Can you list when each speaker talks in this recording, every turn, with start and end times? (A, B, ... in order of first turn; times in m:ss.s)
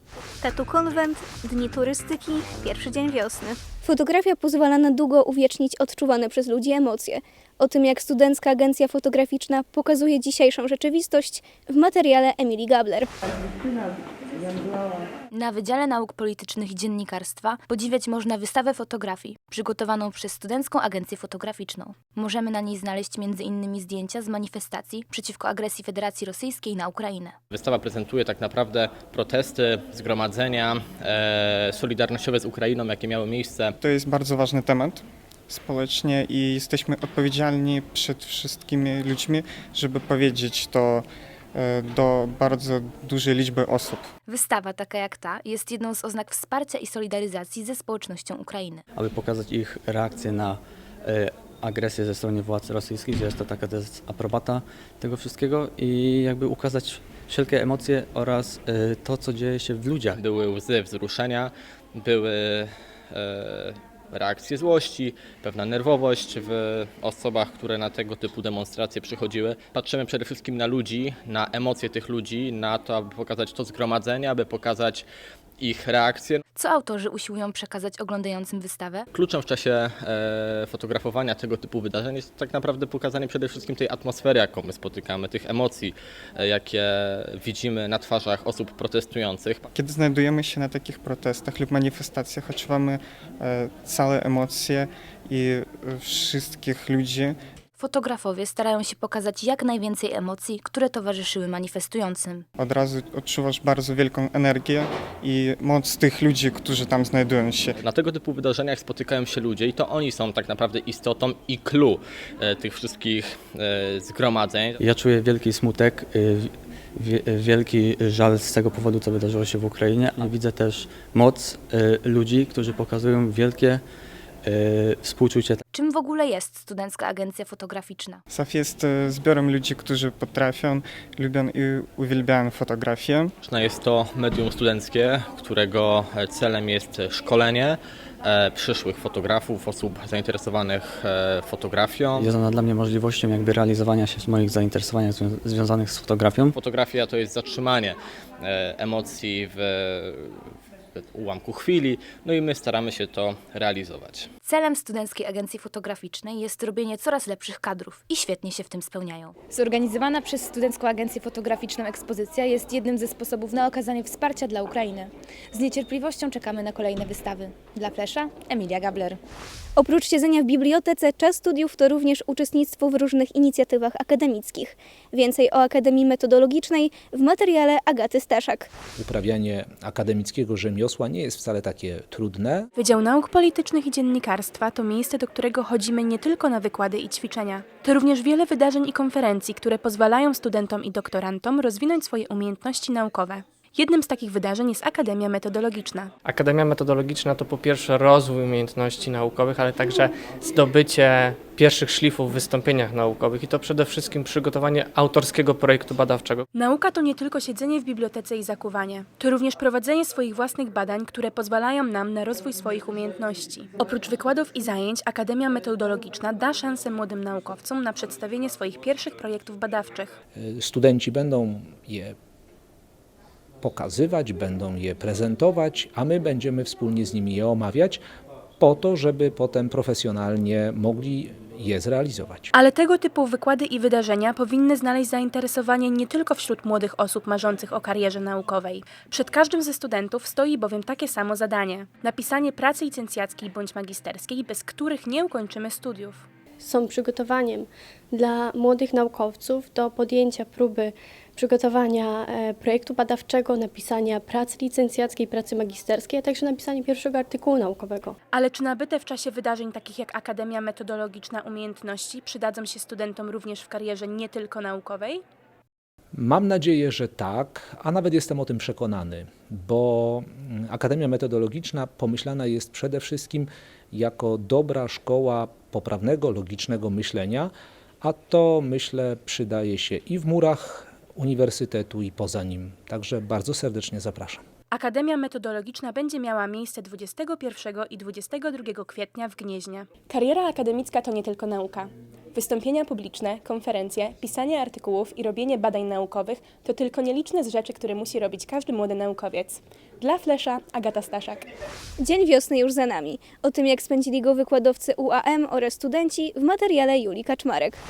0:00.4-0:13.1 A
0:15.3-0:27.3 B
0:27.5-0:33.8 C
0:33.8-0:44.1 D
0:44.3-0:48.8 B
0:49.0-1:00.2 E
1:00.2-1:15.0 C
1:15.6-1:16.4 C
1:16.6-1:19.0 B
1:19.1-1:29.6 C
1:29.7-1:37.4 D
1:37.8-1:42.4 B
1:42.6-1:47.8 D
1:47.8-1:54.8 C
1:54.8-2:03.8 E
2:04.4-2:05.6 E
2:05.7-2:08.2 B
2:08.3-2:13.3 D
2:13.4-2:22.3 C
2:22.2-2:26.5 E
2:26.5-2:30.4 C
2:31.0-2:34.3 C
2:34.4-2:39.4 B
2:39.5-2:49.2 F
2:49.8-2:58.7 A
2:59.0-3:02.7 G
3:02.8-3:16.1 H
3:16.2-3:26.4 I
3:26.5-3:40.2 H
3:40.4-3:42.1 G
3:43.6-3:48.0 G
3:48.6-3:52.5 G
3:52.5-4:06.2 H
4:06.6-4:18.2 J
4:18.3-4:25.2 H
4:26.1-4:44.4 G
4:44.7-5:01.5 H
5:02.0-5:07.8 A